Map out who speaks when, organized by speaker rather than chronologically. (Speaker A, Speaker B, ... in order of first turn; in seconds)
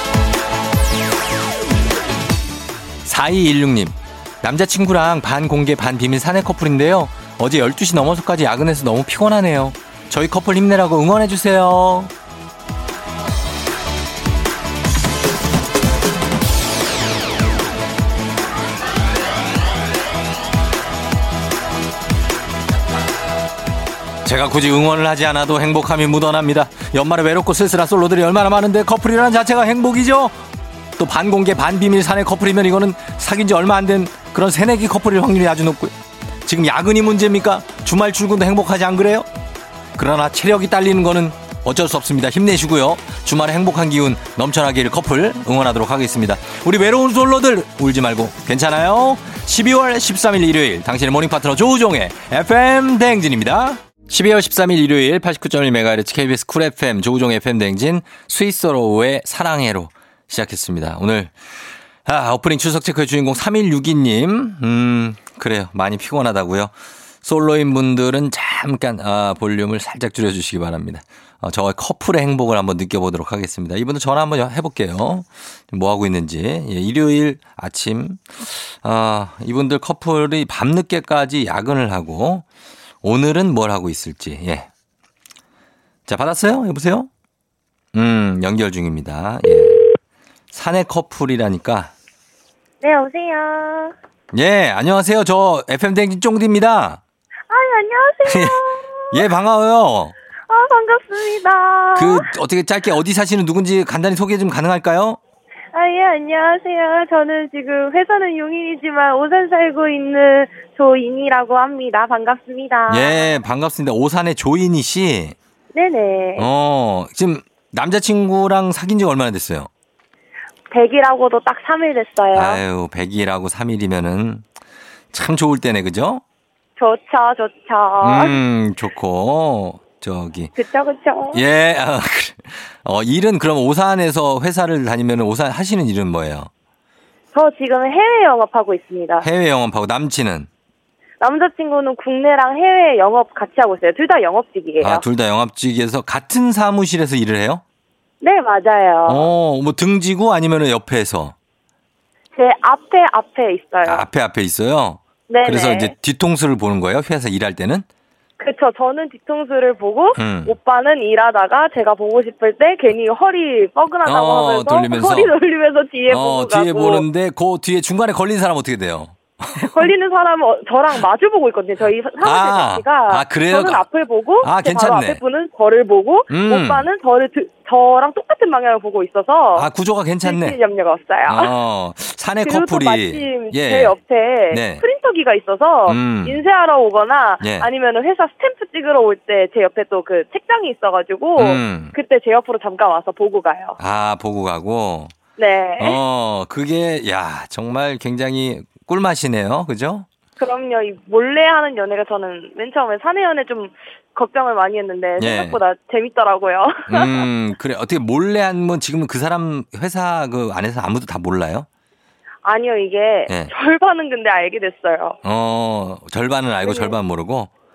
Speaker A: 3.0-12.1, 24.2-30.4, 31.0-35.9, 36.5-39.3, 40.0-61.3, 62.0-66.7, 67.2-82.5, 83.0-84.7, 86.1-87.1, 87.9-89.9, 90.5-91.9, 94.3-97.0, 98.2-98.6, 99.1-100.2, 102.0-105.2, 112.9-115.3, 116.4-119.7, 122.3-124.4, 125.1-126.2, 128.0-130.5, 131.3-136.5, 139.2-140.5, 144.8-147.6, 149.1-151.3, 153.8-157.9, 160.2-160.6, 164.1-165.3, 166.1-169.9, 172.2-173.8, 174.4-175.2, 176.3-176.9, 179.6-180.6, 181.3-184.0, 184.5-184.8, 185.9-186.4, 187.4-187.7, 191.4-191.9, 193.8-195.1, 195.8-200.1, 205.2-205.6, 206.9-211.7, 215.2-217.5
Speaker B: 92.8-93.9, 97.5-99.2, 100.5-102.3, 105.7-113.4, 115.7-116.5, 120.7-122.6, 126.8-128.4, 130.6-131.4, 137.3-139.3, 141.2-145.1, 148.2-149.3, 152.4-154.1, 155.3-155.9, 158.4-167.1, 169.6-179.7, 180.2-181.5, 182.4-193.8, 195.4-196.0, 200.4-207.3, 212.4-215.2, 216.7-217.0